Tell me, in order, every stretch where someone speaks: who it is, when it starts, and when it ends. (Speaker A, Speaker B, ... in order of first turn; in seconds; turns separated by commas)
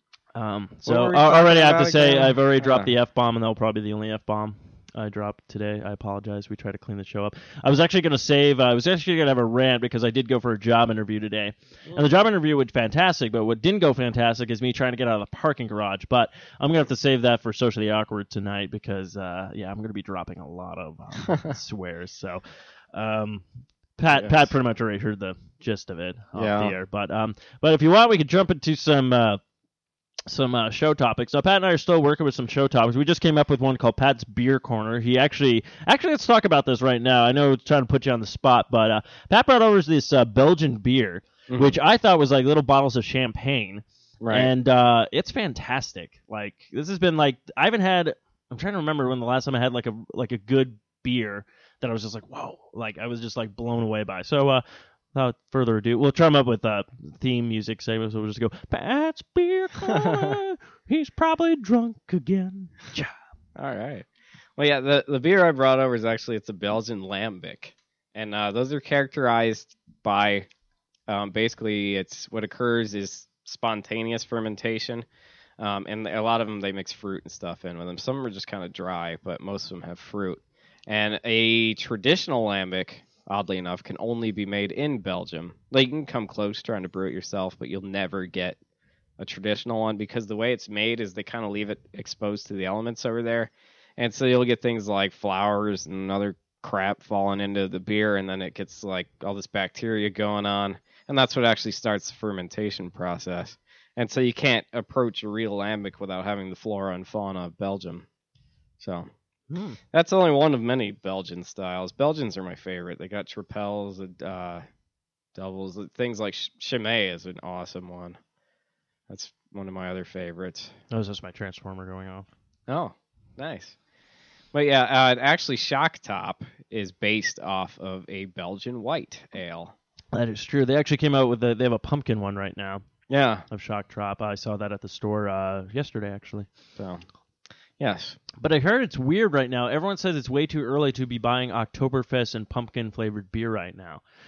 Speaker A: 0.3-22.4, Speaker B: 0.8-2.9, Speaker A: 22.9-29.4, Speaker B: 24.1-24.5, Speaker B: 26.3-26.7, Speaker A: 30.3-63.1, Speaker B: 41.5-41.8, Speaker B: 44.2-44.5, Speaker B: 59.8-60.3, Speaker B: 63.5-70.5, Speaker B: 71.1-75.0, Speaker B: 75.6-88.6, Speaker B: 89.2-108.1, Speaker B: 108.8-109.1, Speaker A: 109.5-109.8, Speaker B: 109.9-114.6, Speaker B: 115.3-118.2, Speaker B: 119.1-120.7, Speaker A: 120.9-122.3, Speaker B: 122.7-123.8, Speaker B: 124.5-129.7, Speaker A: 130.1-132.8, Speaker B: 133.1-133.4, Speaker A: 133.5-136.5, Speaker B: 136.8-137.0, Speaker B: 137.8-138.2, Speaker A: 138.4-144.0